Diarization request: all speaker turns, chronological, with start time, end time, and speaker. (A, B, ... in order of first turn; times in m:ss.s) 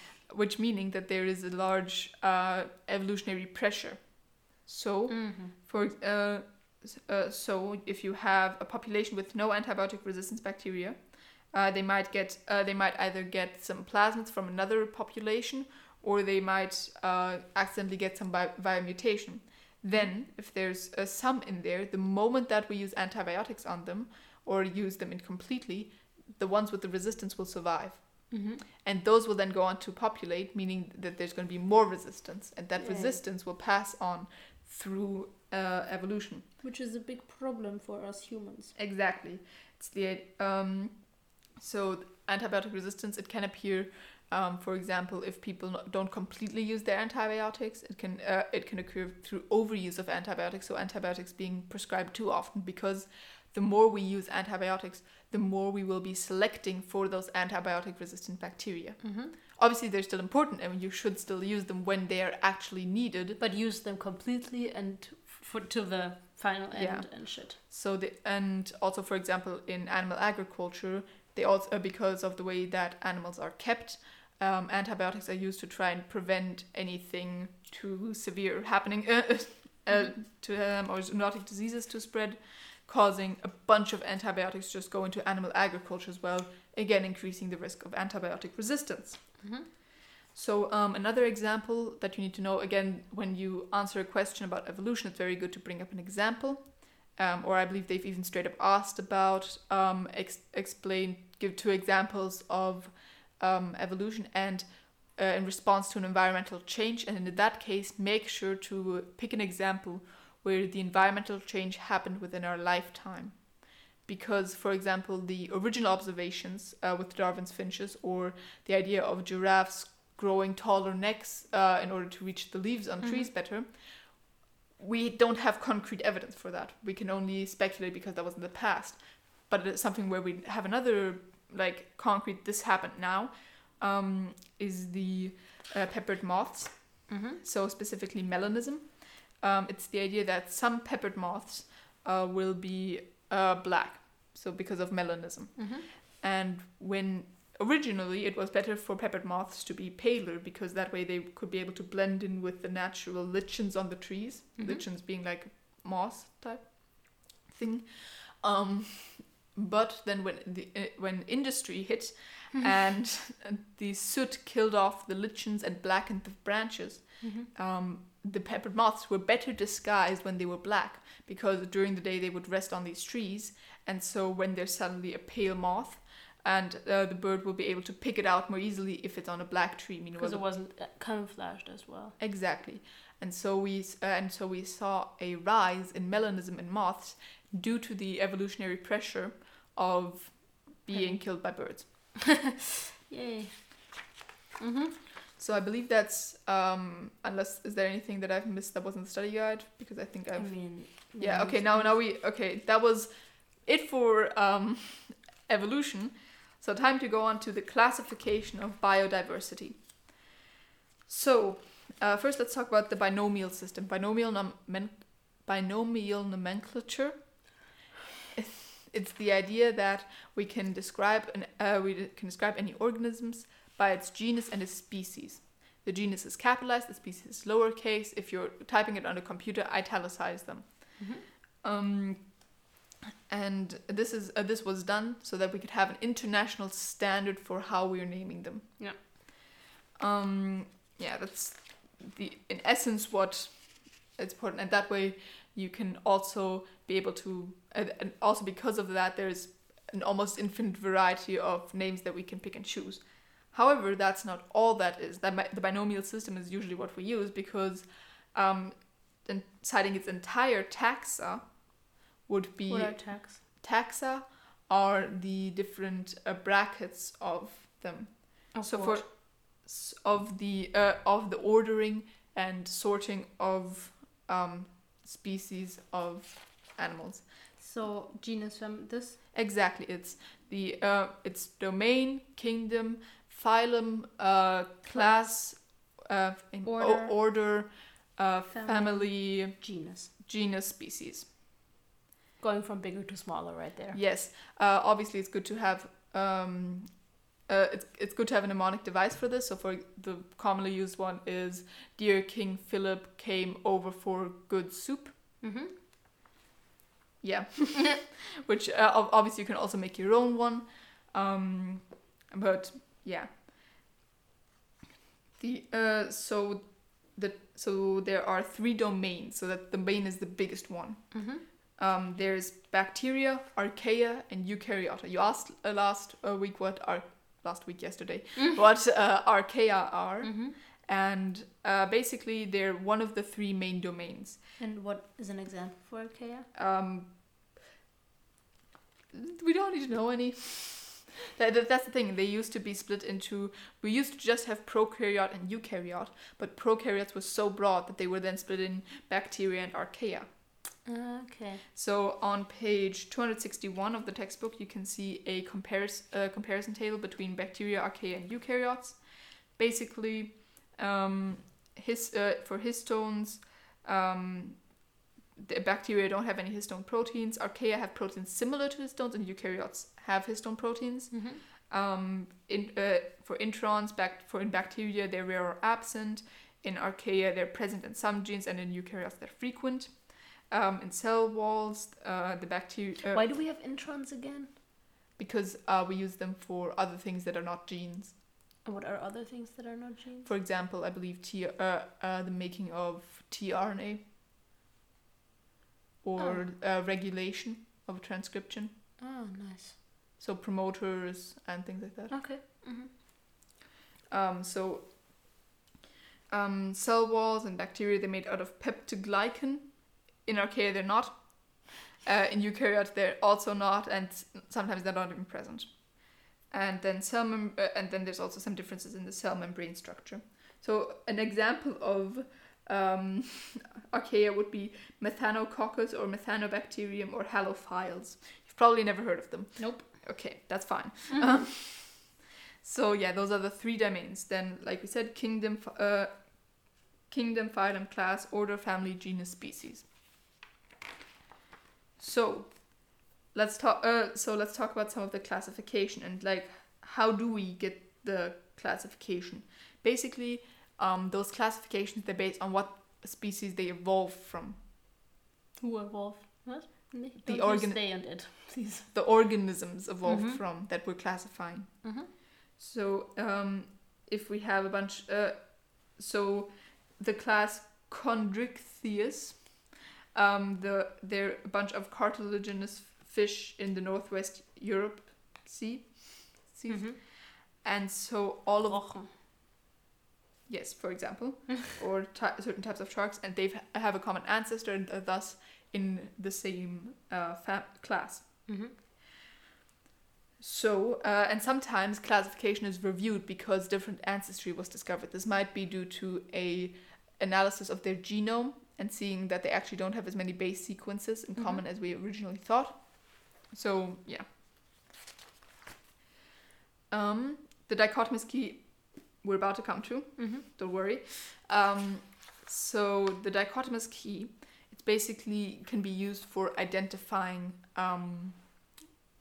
0:00.3-0:36.5 A
0:05.1-0:05.5 B
0:19.9-0:20.2 B
0:28.3-0:28.6 B
0:32.8-0:33.2 B
0:36.6-0:38.8 B
0:38.8-1:03.4 A
0:59.0-0:59.4 B
1:03.4-1:07.6 B
1:06.7-1:29.8 A
1:19.9-1:20.1 B
1:29.4-1:29.7 B
1:30.3-3:00.4 A
2:03.0-2:03.3 B
2:17.1-2:17.4 B
2:25.6-2:25.9 B
2:34.6-2:34.9 B
2:47.2-2:47.5 B
3:00.2-3:02.2 B
3:02.2-3:12.3 A
3:10.9-3:12.1 B
3:13.1-3:15.0 B
3:15.4-3:30.2 A
3:20.4-3:22.0 B
3:31.1-3:37.6 A
3:38.4-3:52.7 A
3:51.0-3:51.2 B
3:53.3-3:59.3 A
4:00.0-4:37.5 A
4:22.6-4:23.4 B
4:28.5-4:29.1 B
4:37.6-4:39.2 B
4:39.3-4:51.3 A
4:46.6-4:47.2 B
4:48.5-4:50.1 B
4:52.4-4:54.0 B
4:53.9-5:05.4 A
5:05.4-5:05.7 B
5:07.2-5:13.4 A
5:15.4-5:34.4 A
5:21.1-5:21.4 B
5:30.2-5:30.6 B
5:34.6-5:36.5 B
5:36.5-5:37.1 A
5:39.1-5:50.7 A
5:50.8-5:51.6 B
5:51.7-6:23.3 A
6:11.1-6:11.4 B
6:23.0-6:24.5 B
6:25.2-6:28.2 A
6:28.6-6:30.3 B
6:30.2-6:34.1 A
6:36.0-6:38.8 A
6:36.2-6:36.5 B
6:39.0-6:39.8 B
6:40.2-6:42.3 A
6:42.1-6:42.9 B
6:44.1-6:45.4 A
6:46.3-7:20.0 A
7:09.6-7:10.3 B
7:11.1-7:11.4 B
7:22.0-7:34.7 A
7:35.6-7:38.9 B
7:37.2-7:58.9 A
7:40.0-7:40.4 B
7:41.8-7:42.1 B
7:56.7-7:57.0 B
7:58.7-7:59.1 B
8:00.5-8:08.8 A
8:08.5-8:08.8 B
8:10.4-8:24.4 A
8:21.4-8:21.7 B
8:26.9-8:38.7 A
8:30.2-8:30.4 B